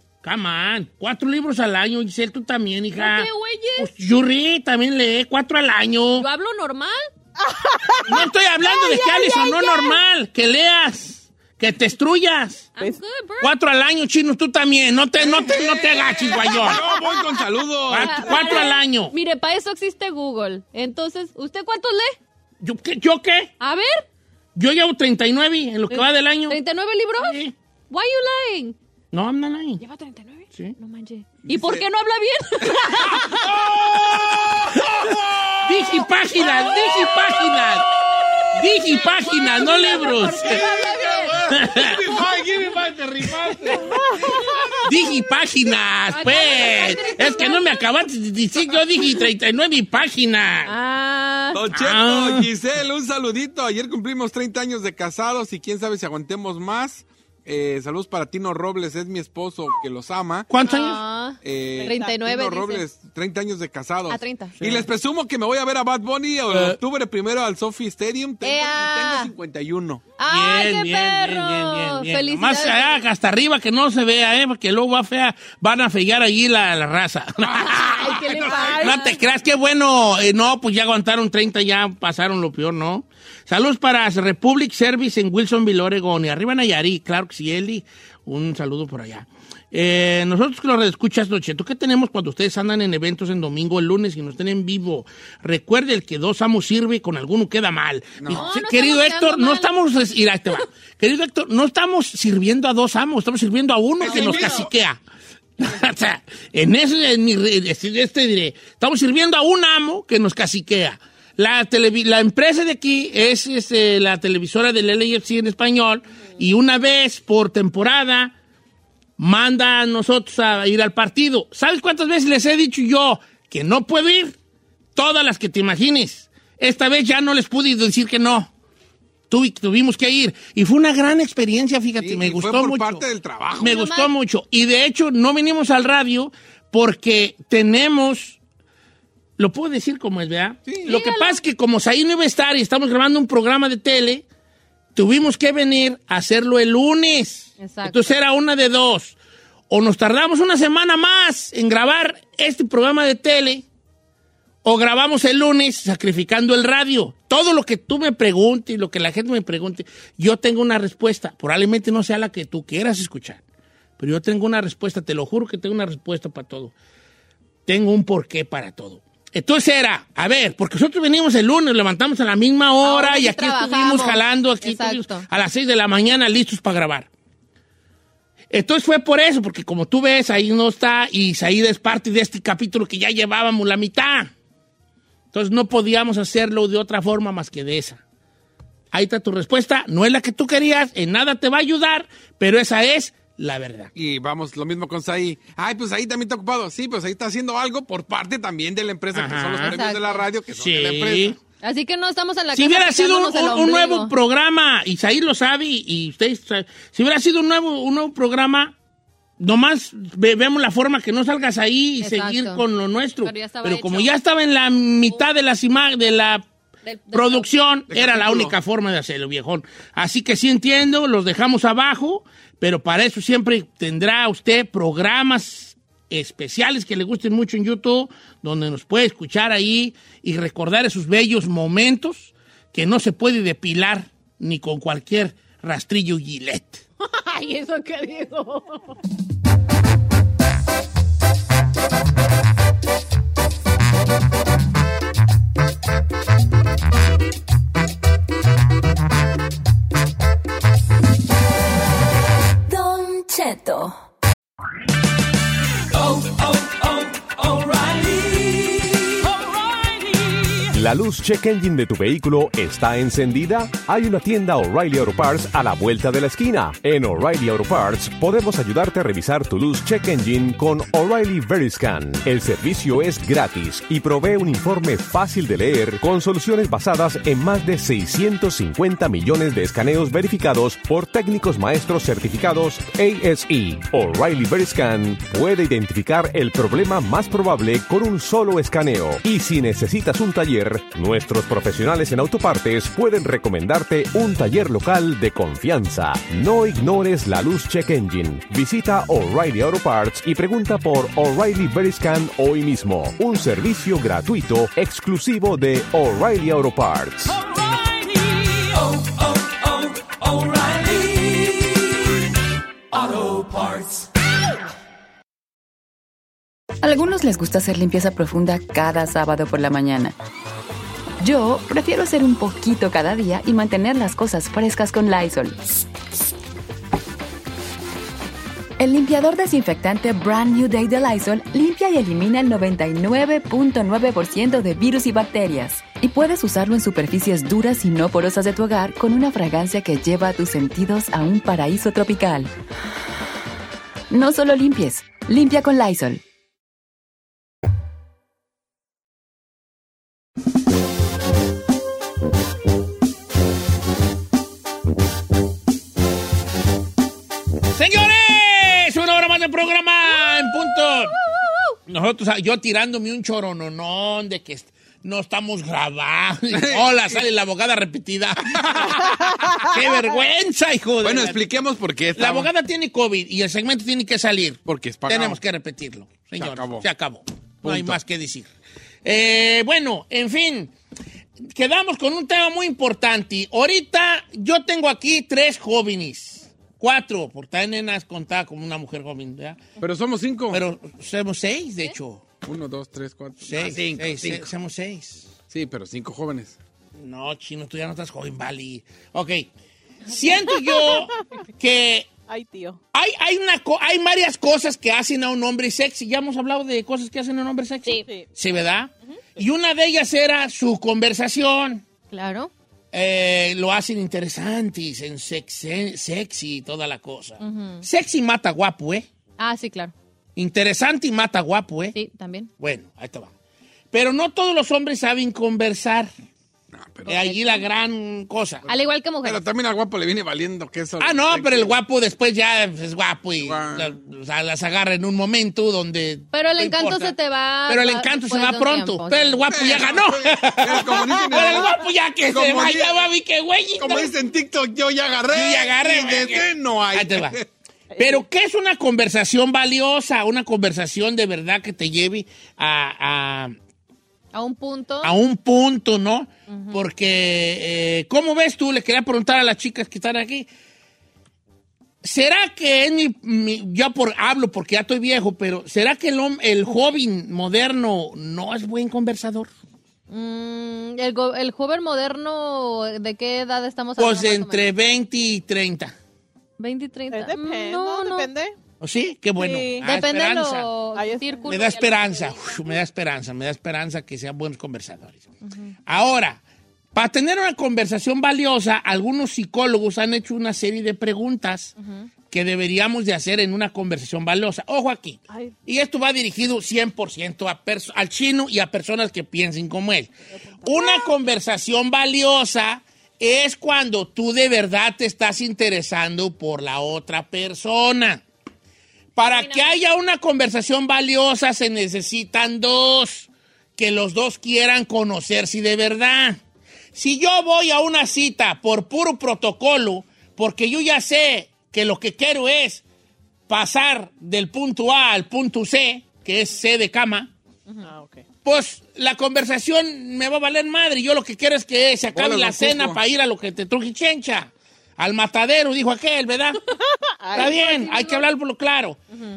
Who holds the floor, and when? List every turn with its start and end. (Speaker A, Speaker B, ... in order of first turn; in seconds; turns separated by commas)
Speaker A: 0.2-6.3, Speaker B: 3.0-3.9, Speaker B: 6.2-7.1, Speaker C: 7.4-8.2, Speaker A: 8.1-12.7, Speaker B: 8.6-10.0, Speaker B: 12.8-13.5, Speaker A: 13.4-16.8, Speaker D: 15.2-18.5, Speaker C: 16.9-17.3, Speaker A: 17.9-19.1, Speaker B: 18.0-22.2, Speaker A: 22.6-23.5, Speaker B: 23.6-24.1, Speaker A: 24.6-26.6, Speaker B: 25.9-27.4, Speaker A: 27.2-27.5, Speaker B: 27.9-28.8, Speaker A: 29.1-29.8, Speaker B: 29.8-33.5, Speaker D: 31.4-31.9, Speaker D: 32.6-35.9, Speaker A: 33.8-34.8, Speaker A: 35.6-37.9, Speaker B: 36.4-37.5, Speaker B: 38.3-42.2, Speaker A: 38.5-40.6, Speaker D: 40.3-43.8, Speaker A: 41.5-42.0, Speaker A: 43.5-43.7, Speaker C: 43.9-44.7, Speaker A: 44.8-50.7, Speaker B: 46.1-47.9, Speaker B: 50.7-51.6, Speaker D: 51.5-60.5, Speaker A: 51.7-52.5, Speaker A: 60.5-61.0, Speaker B: 60.6-62.9, Speaker D: 61.4-70.0, Speaker C: 61.8-62.2, Speaker B: 64.1-64.6, Speaker A: 64.6-64.9, Speaker A: 66.5-66.8, Speaker B: 68.4-69.3, Speaker B: 70.2-73.1, Speaker A: 70.3-78.0, Speaker D: 77.4-78.8, Speaker B: 77.7-79.2, Speaker C: 78.4-78.8, Speaker A: 78.7-105.0, Speaker D: 98.2-98.5, Speaker B: 98.3-99.7, Speaker D: 104.0-104.7, Speaker B: 104.0-104.7, Speaker A: 105.6-118.3, Speaker A: 119.2-124.4, Speaker A: 125.0-128.5, Speaker A: 129.3-133.0, Speaker D: 132.0-133.7, Speaker A: 133.6-138.4, Speaker B: 133.6-134.1, Speaker A: 139.4-144.2, Speaker B: 140.8-141.4, Speaker A: 144.9-149.2, Speaker B: 147.6-148.2, Speaker A: 149.7-153.7, Speaker A: 154.6-163.4, Speaker A: 164.0-166.7, Speaker A: 167.7-177.1, Speaker B: 172.8-175.3, Speaker A: 178.5-184.3, Speaker A: 185.3-188.0, Speaker A: 188.9-193.9, Speaker D: 193.9-201.4, Speaker A: 199.1-199.8, Speaker B: 199.6-200.3, Speaker A: 200.5-201.4, Speaker B: 201.6-204.1, Speaker A: 202.6-208.7, Speaker A: 209.4-216.5, Speaker B: 212.0-212.6, Speaker B: 213.2-214.1, Speaker B: 216.8-217.5, Speaker A: 217.1-236.8, Speaker D: 217.9-218.6, Speaker B: 237.0-239.0, Speaker E: 252.7-253.9, Speaker F: 260.7-307.4, Speaker E: 316.8-320.1, Speaker E: 321.2-325.8, Speaker E: 328.8-342.5, Speaker E: 344.1-346.2, Speaker A: 357.7-361.2, Speaker B: 360.2-361.7, Speaker A: 361.9-369.0, Speaker D: 366.5-367.2, Speaker D: 368.5-369.4, Speaker A: 369.6-371.4, Speaker D: 371.0-372.5, Speaker A: 372.1-378.5, Speaker D: 374.7-375.4, Speaker D: 376.4-376.9, Speaker D: 377.6-378.0, Speaker A: 379.0-380.7, Speaker A: 381.4-389.6, Speaker D: 389.8-390.6, Speaker A: 390.5-392.2, Speaker D: 392.4-394.5, Speaker A: 393.4-395.3, Speaker D: 395.5-396.6, Speaker A: 397.0-399.5, Speaker A: 400.1-402.1, Speaker C: 400.5-401.1, Speaker C: 402.3-402.8, Speaker A: 402.9-411.8, Speaker B: 412.1-412.5, Speaker A: 412.9-419.1, Speaker B: 417.4-417.9, Speaker B: 419.4-419.9, Speaker A: 420.4-422.0, Speaker B: 421.9-422.5, Speaker A: 422.6-423.3, Speaker A: 423.9-426.1, Speaker D: 426.7-427.2, Speaker A: 427.1-428.6, Speaker B: 427.1-427.6, Speaker B: 428.7-429.4, Speaker D: 429.2-431.8, Speaker A: 431.0-437.1, Speaker D: 433.4-433.9, Speaker B: 436.3-439.4, Speaker A: 437.7-444.1, Speaker D: 439.5-443.1, Speaker D: 443.8-447.5, Speaker A: 445.3-447.4, Speaker C: 447.9-448.2, Speaker A: 448.0-453.6, Speaker B: 454.3-455.1, Speaker A: 455.0-460.5, Speaker B: 456.5-456.8, Speaker A: 462.0-469.5, Speaker B: 470.1-474.7, Speaker A: 474.0-475.9, Speaker B: 476.6-478.3, Speaker C: 477.1-478.6, Speaker A: 478.8-480.7, Speaker C: 479.4-479.9, Speaker B: 479.8-482.6, Speaker C: 480.9-481.5, Speaker A: 481.5-485.3, Speaker B: 485.4-485.7, Speaker A: 485.9-486.4, Speaker A: 486.9-491.7, Speaker A: 492.3-508.2, Speaker C: 500.3-500.9, Speaker A: 509.2-516.4, Speaker B: 509.2-509.8, Speaker A: 516.9-522.8, Speaker A: 523.5-527.3, Speaker C: 527.7-528.2, Speaker A: 528.4-536.6, Speaker D: 532.1-533.0, Speaker C: 537.1-538.0, Speaker A: 537.3-539.0, Speaker B: 537.4-538.1